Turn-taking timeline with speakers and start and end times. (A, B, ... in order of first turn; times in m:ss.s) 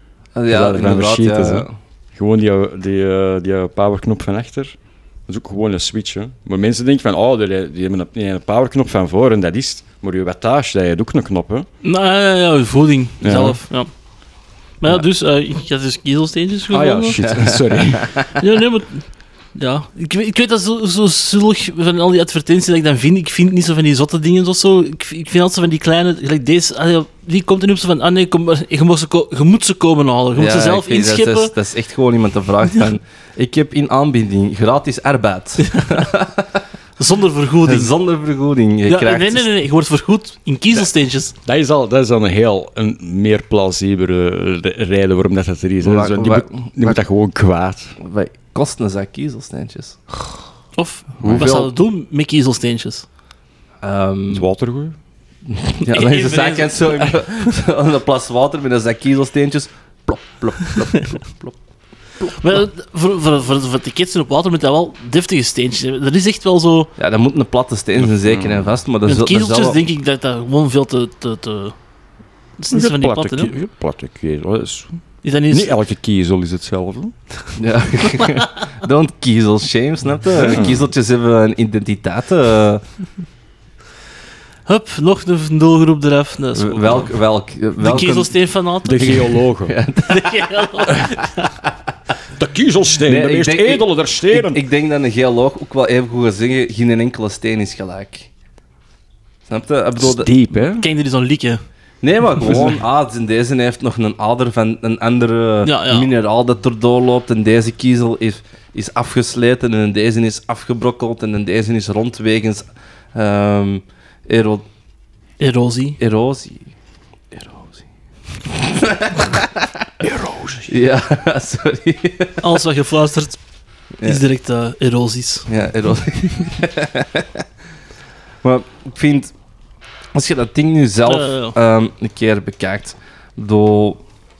0:00.4-0:01.7 A
0:00.5-0:11.7 B
0:11.8-0:13.9 C
0:13.2-0:13.6 B
0:14.8-0:17.4 C
0:16.7-0:18.2 B
0:17.2-0:18.1 A
0:18.4-0:31.5 C
0:30.4-0:36.6 A
0:35.7-0:36.0 C
0:37.0-0:37.9 C
0:37.6-0:39.5 A
0:38.9-0:41.4 C
0:41.4-0:47.9 B
0:45.8-0:47.0 A
0:48.0-0:50.0 A
0:50.8-0:53.1 C
0:51.2-0:51.7 A
0:51.2-0:51.5 B
0:53.8-0:54.4 A
0:54.3-0:55.0 B
0:55.5-1:01.6 A
0:55.9-0:57.1 C
1:02.3-1:06.9 C
1:07.0-1:09.8 A
1:08.0-1:08.8 B
1:09.1-1:11.7 C
1:12.6-1:13.6 C
1:12.7-1:17.1 B
1:15.2-1:15.7 C
1:17.6-1:22.8 A
1:20.4-1:20.8 B
1:24.6-1:27.1 C
1:26.5-1:28.3 A
1:27.8-1:29.5 C
1:28.8-1:29.7 B
1:29.6-1:31.0 A
1:30.0-1:31.5 C
1:32.4-1:34.6 B
1:33.0-1:38.3 A
1:39.5-1:40.4 A
1:40.0-1:40.9 B
1:40.8-1:41.6 C
1:42.0-1:54.6 A
1:45.6-1:46.1 C
1:55.4-1:56.0 C
1:56.0-1:56.7 A
1:57.3-1:57.9 A
1:58.5-1:59.5 A
2:00.0-2:00.7 B
2:00.6-2:02.4 A
2:02.4-2:03.4 C
2:04.0-2:05.5 C
2:05.5-2:07.4 A
2:08.4-2:09.3 A
2:10.1-2:14.0 A
2:11.1-2:11.6 C